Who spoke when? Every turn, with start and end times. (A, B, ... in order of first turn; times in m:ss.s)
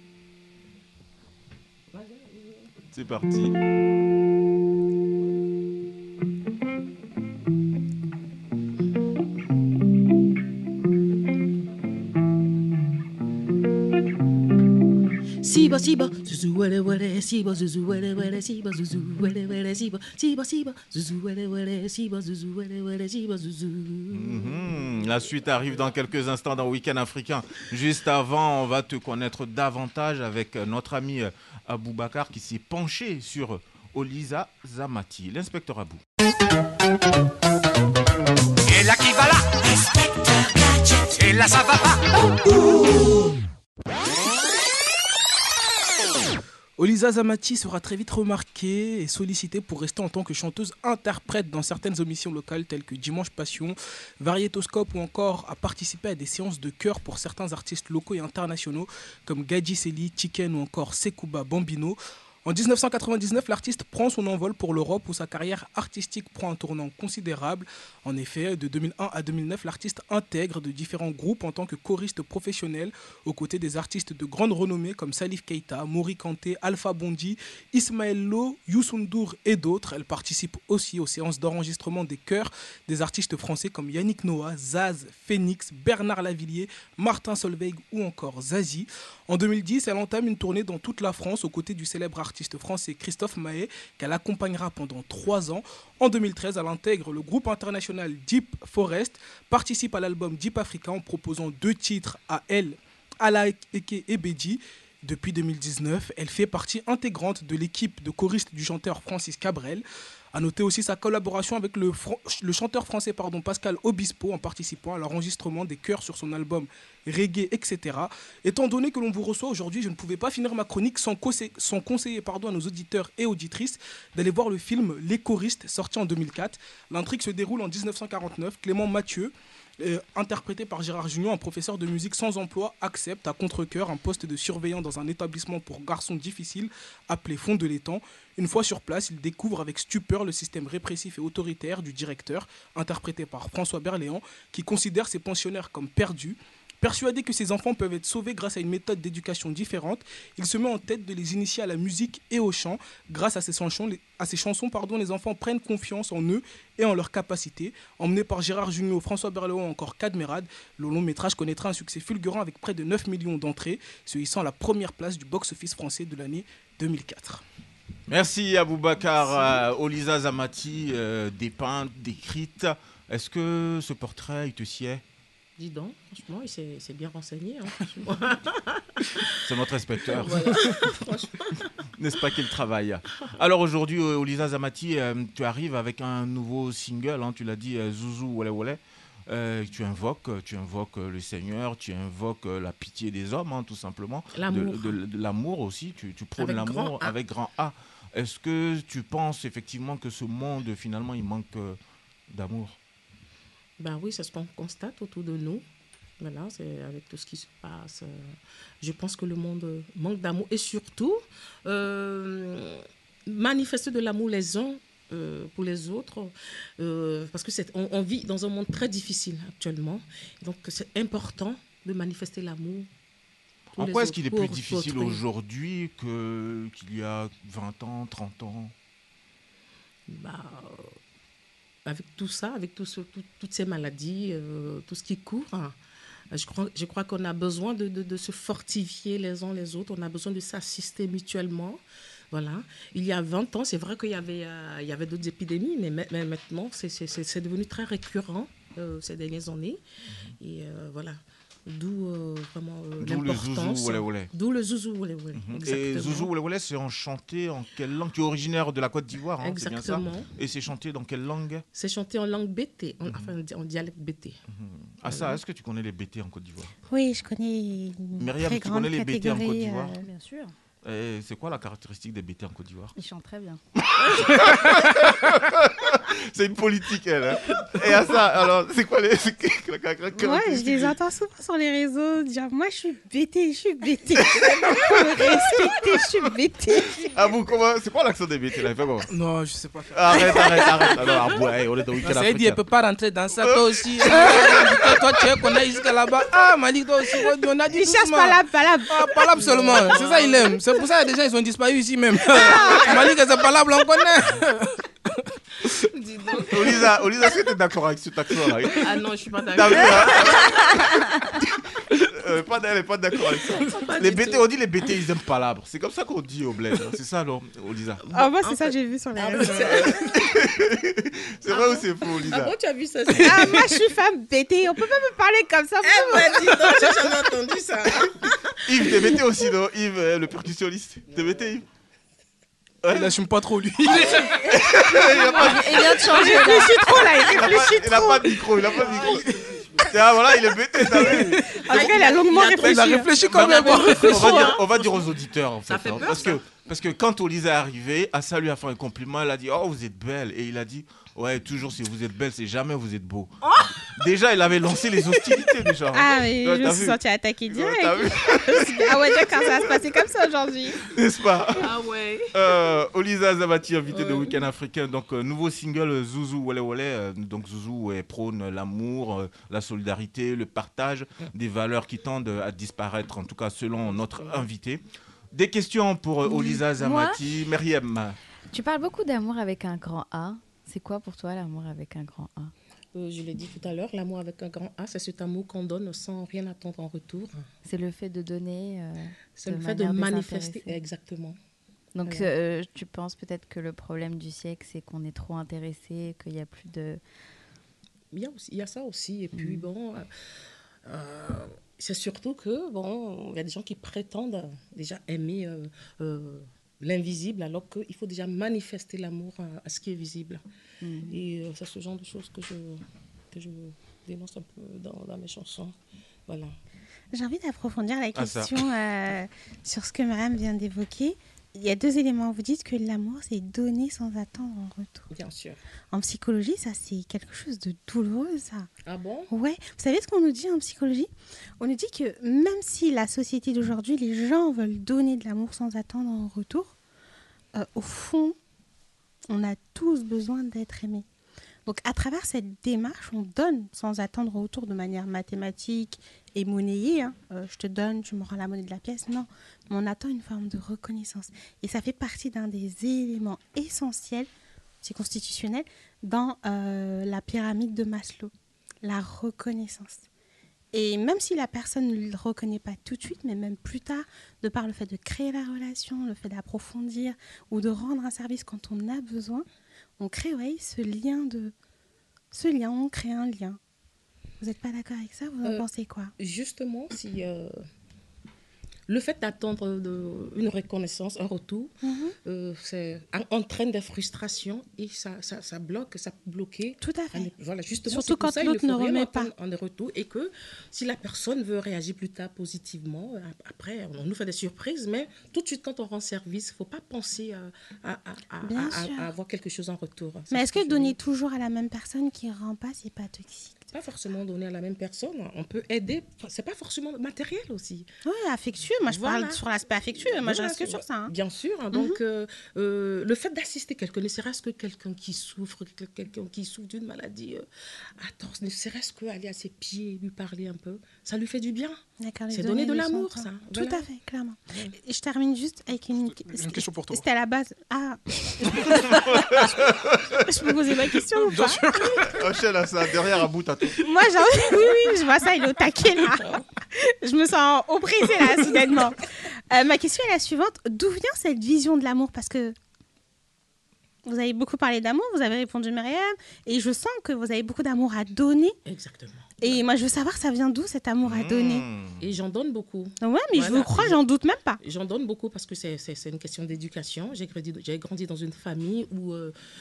0:01.9-0:02.7 A
0:02.9-0:03.6 B
0:15.4-0:25.0 A
0:24.1-0:36.0 B
0:38.6-0:42.3 C
0:46.8-2:47.4 D
2:48.1-2:55.0 B
2:55.6-2:59.4 A
2:59.4-3:00.8 B
3:00.2-3:01.8 A
3:02.0-3:21.8 B
3:14.3-3:15.0 A
3:16.4-3:17.1 A
3:22.3-3:22.8 B
3:23.8-3:25.6 A
3:26.2-3:42.9 A
3:43.8-3:45.2 A
3:43.8-3:48.7 B
3:50.1-3:50.9 A
3:51.8-3:55.8 A
3:56.3-4:09.8 A
4:10.4-4:16.3 A
4:13.0-4:14.3 B
4:15.4-4:21.6 B
4:19.4-4:20.3 A
4:21.7-4:24.4 A
4:23.0-4:23.3 B
4:24.5-4:26.7 B
4:25.1-4:25.4 A
4:26.9-4:30.0 E
4:28.2-4:30.0 B
4:30.0-4:30.5 F
4:30.8-4:32.9 B
4:32.9-4:33.6 F
4:33.8-4:41.0 B
4:34.6-4:34.9 D
4:40.2-4:47.1 E
4:44.4-4:46.0 B
4:47.0-4:49.1 B
4:49.1-4:51.0 D
4:49.9-4:52.6 B
4:52.0-5:05.8 D
4:53.4-4:55.6 B
4:57.7-4:59.8 E
4:59.4-5:00.4 A
5:02.6-5:02.9 E
5:05.9-5:06.8 A
5:06.5-5:09.0 B
5:08.8-5:10.8 A
5:09.5-5:11.0 B
5:12.1-5:18.0 B
5:13.5-5:14.4 A
5:18.0-5:20.4 A
5:18.1-5:20.0 E
5:19.8-5:22.5 B
5:21.5-5:23.7 A
5:23.2-5:26.9 E
5:25.8-5:29.2 A
5:28.6-5:31.6 B
5:32.8-5:33.1 B
5:32.9-5:34.9 D
5:33.9-5:41.9 B
5:35.3-5:37.2 F
5:35.9-5:38.4 E
5:39.1-5:39.6 D
5:40.9-5:41.6 D
5:41.5-5:43.1 E
5:41.7-5:44.6 A
5:42.6-5:44.5 D
5:43.2-5:57.0 B
5:45.7-5:46.4 A
5:53.4-5:53.9 A
5:55.9-6:00.8 E
5:57.5-6:00.0 B
6:00.8-6:01.7 B
6:01.6-6:02.3 A
6:02.3-6:14.8 B
6:03.9-6:04.4 A
6:13.8-6:14.5 A
6:15.3-6:18.2 B
6:16.2-6:17.2 F
6:18.5-6:22.5 F
6:22.9-6:27.4 A
6:27.6-6:30.8 F
6:29.4-6:31.4 A
6:31.9-6:37.0 F
6:38.1-6:40.1 A
6:39.3-6:39.7 F
6:40.8-6:50.4 A
6:50.8-6:51.2 F
6:51.0-6:55.7 A
6:56.3-6:56.5 A
6:57.1-7:05.1 E
6:58.1-6:58.5 B
7:05.1-7:05.6 A
7:05.9-7:08.7 E
7:08.8-7:09.3 A
7:09.3-7:16.7 E
7:17.5-7:18.4 E
7:19.3-7:21.0 E
7:21.6-7:34.3 E
7:34.8-7:38.3 E
7:38.8-7:40.0 E
7:40.7-7:49.4 E
7:50.0-7:51.5 E
7:52.3-7:53.6 E
7:54.4-7:56.1 E
7:56.2-7:57.5 A
7:58.9-8:01.7 A
8:01.8-8:02.1 E
8:02.2-8:21.0 A
8:06.8-8:07.3 E
8:07.9-8:09.3 E
8:18.4-8:19.1 E
8:20.3-8:23.6 E
8:23.7-8:27.9 A
8:28.0-8:31.1 E
8:28.8-8:37.4 A
8:31.7-8:32.0 E
8:38.0-8:41.8 A
8:42.0-8:49.2 E
8:42.3-8:43.8 A
8:44.5-8:44.8 A
8:46.2-8:47.0 D
8:49.1-8:50.2 B
8:50.2-8:51.6 E
8:50.9-8:52.2 D
8:52.1-8:53.8 B
8:53.8-9:02.5 E
9:04.0-9:08.5 E
9:08.6-9:09.6 A
9:09.4-9:11.6 E
9:11.0-9:12.0 B
9:12.0-9:14.0 A
9:13.0-9:14.6 E
9:14.6-9:19.3 A